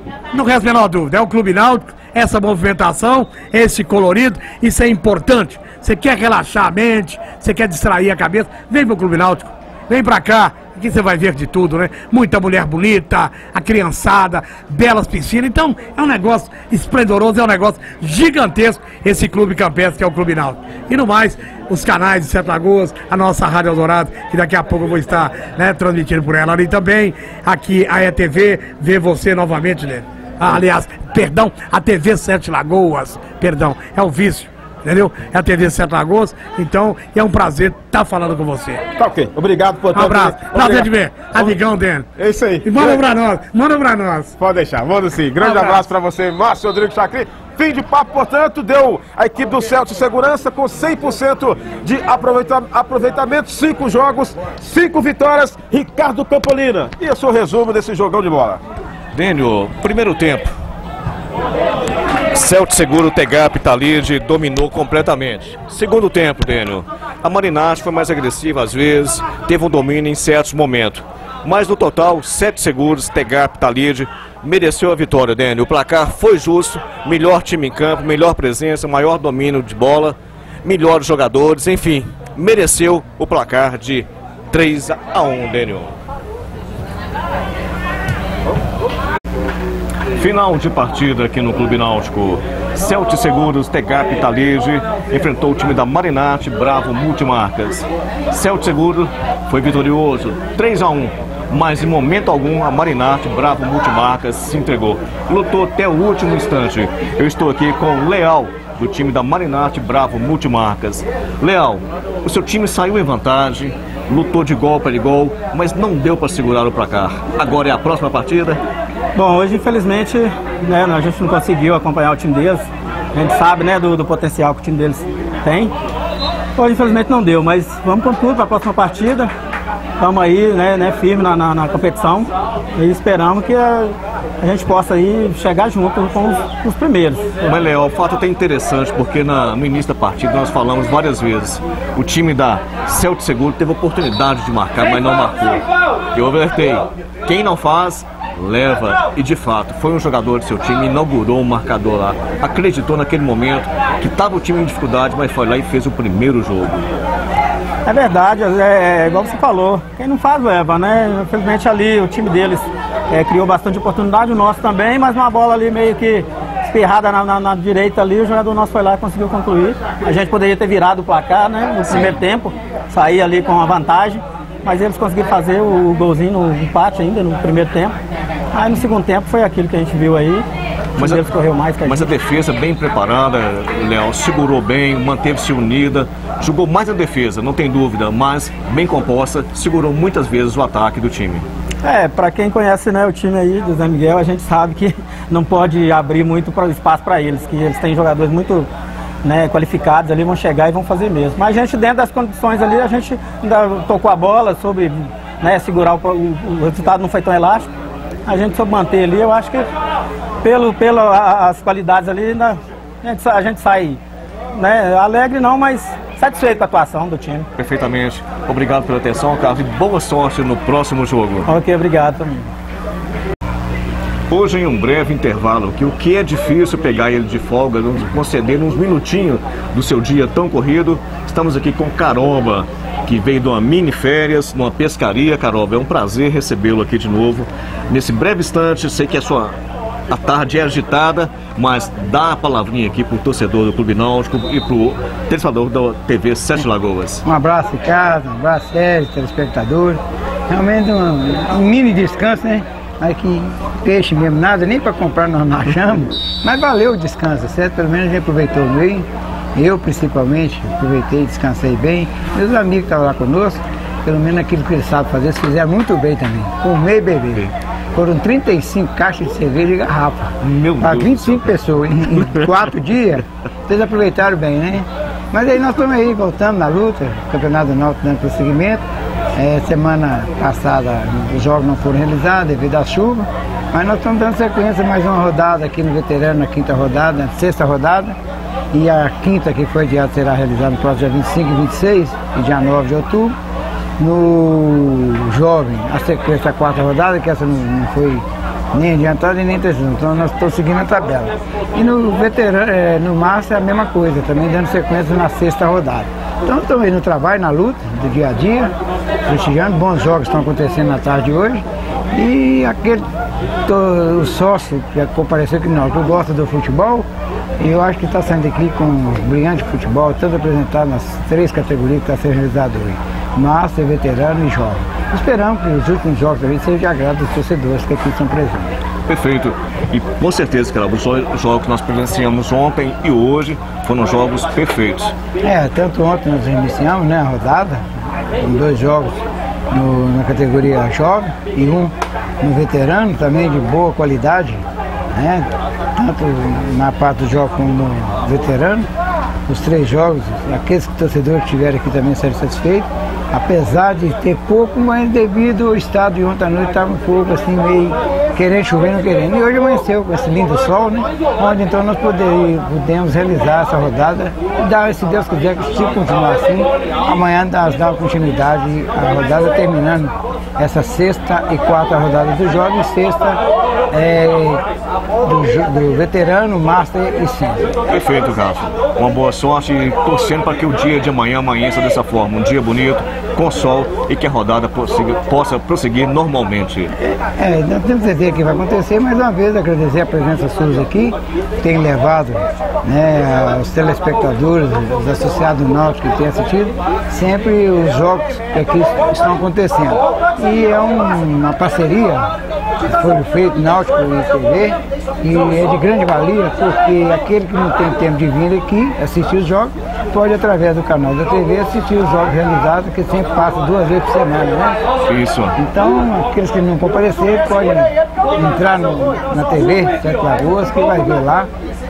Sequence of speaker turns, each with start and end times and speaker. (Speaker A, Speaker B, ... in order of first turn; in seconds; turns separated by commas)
Speaker A: 0.3-38.8, Speaker B: 39.0-41.6, Speaker A: 39.9-42.1, Speaker B: 42.1-43.0, Speaker A: 42.6-44.3, Speaker B: 44.4-58.6, Speaker A: 45.4-45.8, Speaker C: 59.1-60.5, Speaker C: 62.3-86.0, Speaker C: 90.2-118.6, Speaker D: 119.1-125.7, Speaker D: 126.5-129.3, Speaker D: 130.0-137.4, Speaker C: 137.4-156.9, Speaker D: 157.8-178.0, Speaker D: 178.5-182.1, Speaker C: 181.0-181.3, Speaker C: 181.8-191.4, Speaker D: 191.8-198.7, Speaker D: 199.2-207.7, Speaker D: 208.3-209.7, Speaker D: 210.4-214.0, Speaker D: 214.5-217.5, Speaker C: 217.6-221.5, Speaker D: 221.5-222.5, Speaker C: 224.3-239.6, Speaker C: 240.1-247.2, Speaker E: 247.2-278.8, Speaker C: 270.4-271.6, Speaker C: 272.1-272.7, Speaker E: 279.4-288.2, Speaker E: 288.7-293.4, Speaker E: 294.0-308.7, Speaker E: 309.2-313.0, Speaker E: 313.6-317.1, Speaker E: 317.6-328.8, Speaker C: 329.1-335.1, Speaker E: 335.4-348.9, Speaker E: 349.5-374.6, Speaker E: 375.2-377.7, Speaker C: 377.8-386.9, Speaker E: 387.2-402.3, Speaker E: 402.9-414.8, Speaker C: 415.0-415.6, Speaker E: 415.6-421.5